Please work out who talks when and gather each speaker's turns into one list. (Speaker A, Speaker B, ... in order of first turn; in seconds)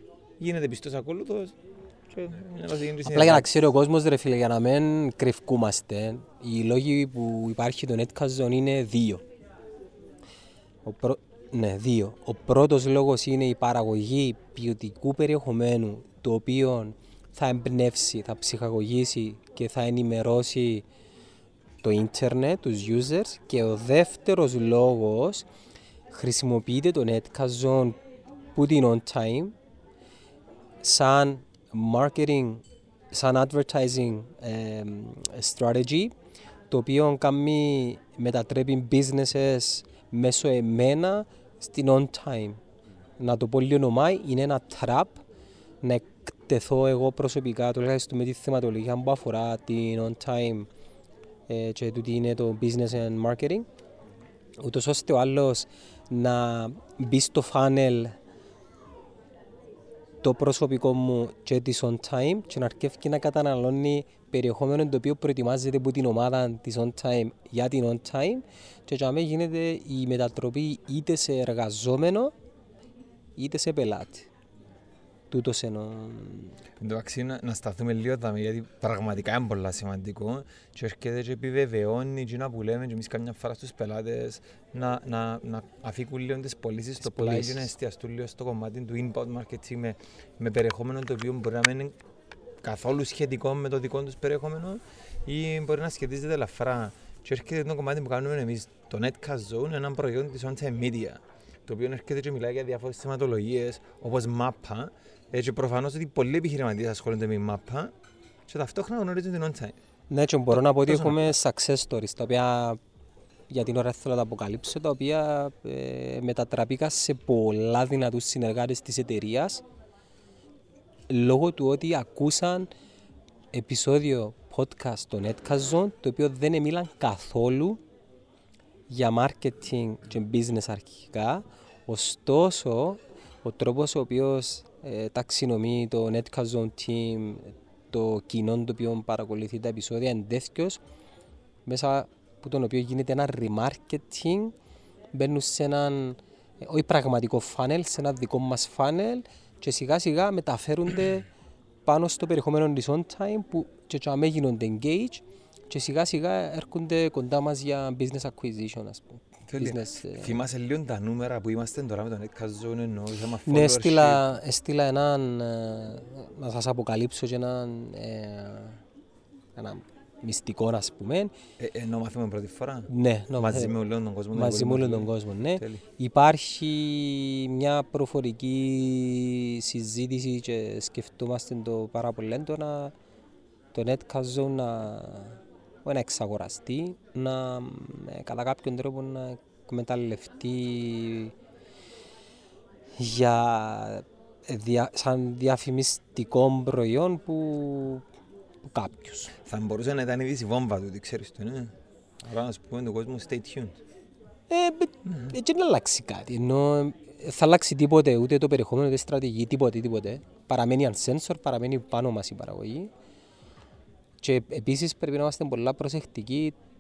Speaker A: 0.4-3.5, 76.8-92.0, 92.6-107.9, 108.5-109.8, 110.5-111.4, 159.5-164.3, 171.6-175.8, 199.4-203.8, 205.1-205.3
Speaker B: 3.0-9.2, 10.8-20.9, 21.8-25.5, 26.1-28.0, 28.6-29.6, 30.8-36.1, 36.7-42.6, 43.2-45.2, 45.8-50.7, 51.5-53.7, 54.6-58.1, 60.2-72.3, 73.4-74.3, 75.3-76.6, 87.0-87.7, 110.1-112.8, 113.5-119.6, 121.1-122.7, 123.5-127.8, 128.9-140.8, 141.7-144.6, 145.1-151.3, 151.9-160.4, 163.4-168.8, 169.6-171.3, 172.9-173.8, 174.3-182.9, 183.7-191.3, 193.0-198.1, 198.7-199.3, 204.5-212.9, 214.2-216.6